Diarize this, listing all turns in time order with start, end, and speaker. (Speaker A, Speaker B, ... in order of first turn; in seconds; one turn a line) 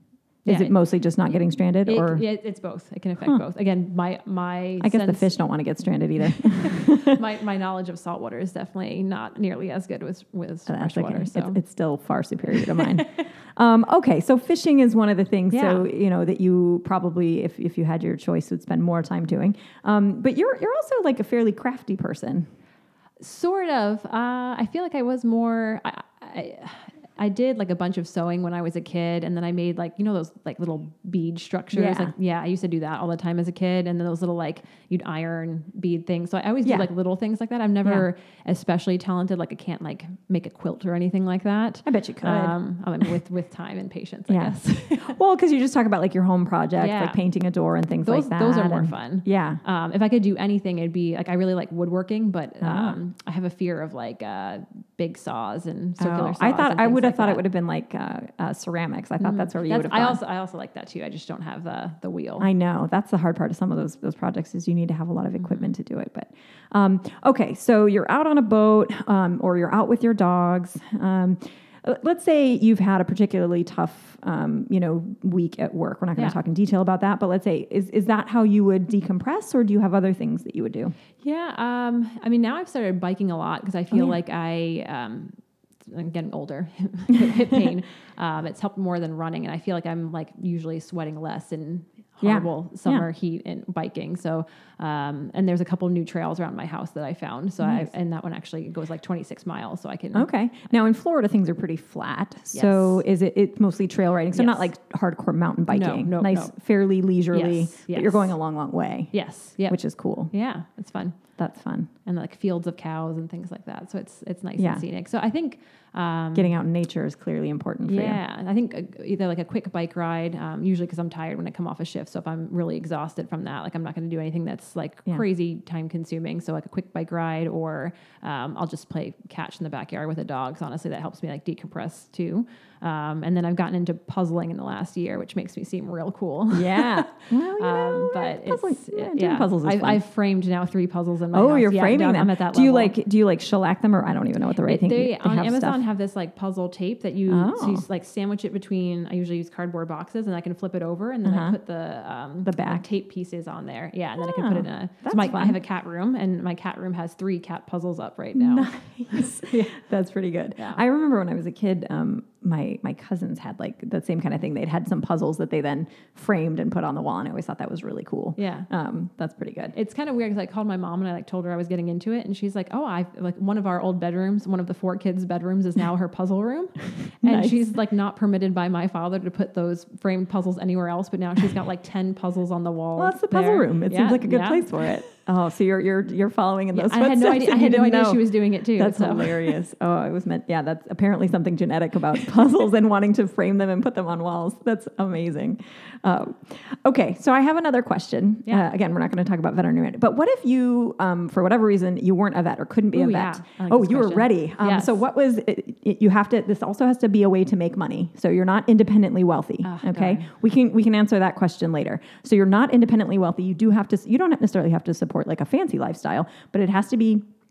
Speaker A: 0.4-2.2
Speaker B: 0.5-0.8
Speaker B: 1.8-5.3
Speaker A: 4.8-7.2
Speaker B: 6.4-11.6
Speaker A: 10.7-22.5
Speaker B: 12.5-13.0
Speaker B: 15.5-15.8
Speaker B: 23.2-45.1
Speaker A: 31.7-32.1
Speaker A: 36.6-36.9
Speaker A: 41.8-42.6
Speaker A: 44.3-49.6
Speaker B: 46.8-47.2
Speaker B: 48.0-57.4
Speaker A: 52.6-53.0
Speaker A: 56.0-60.2
Speaker B: 59.2-62.5
Speaker A: 62.4-80.9
Speaker B: 65.4-65.7
Speaker B: 81.2-85.3
Speaker A: 83.9-84.2
Speaker B: 85.9-100.3
Speaker A: 92.2-93.1
Speaker A: 97.6-97.9
Speaker A: 100.1-109.1
Speaker B: 102.5-103.0
Speaker B: 104.3-104.7
Speaker B: 105.7-106.5
Speaker B: 107.3-108.4
Speaker B: 109.1-111.2
Speaker A: 109.7-110.3
Speaker A: 111.4-111.9
Speaker B: 112.0-116.5
Speaker A: 114.6-114.8
Speaker A: 116.3-118.2
Speaker B: 117.8-142.9
Speaker A: 136.5-140.0
Speaker A: 141.3-145.8
Speaker B: 144.6-159.8
Speaker A: 147.3-147.8
Speaker A: 151.2-151.6
Speaker A: 152.4-152.9
Speaker A: 154.2-155.6
Speaker A: 158.3-169.7
Speaker B: 168.4-168.7
Speaker B: 169.7-184.9
Speaker A: 177.2-177.7
Speaker A: 183.0-217.2
Speaker B: 186.7-189.6
Speaker B: 202.9-205.0
Speaker B: 209.6-210.3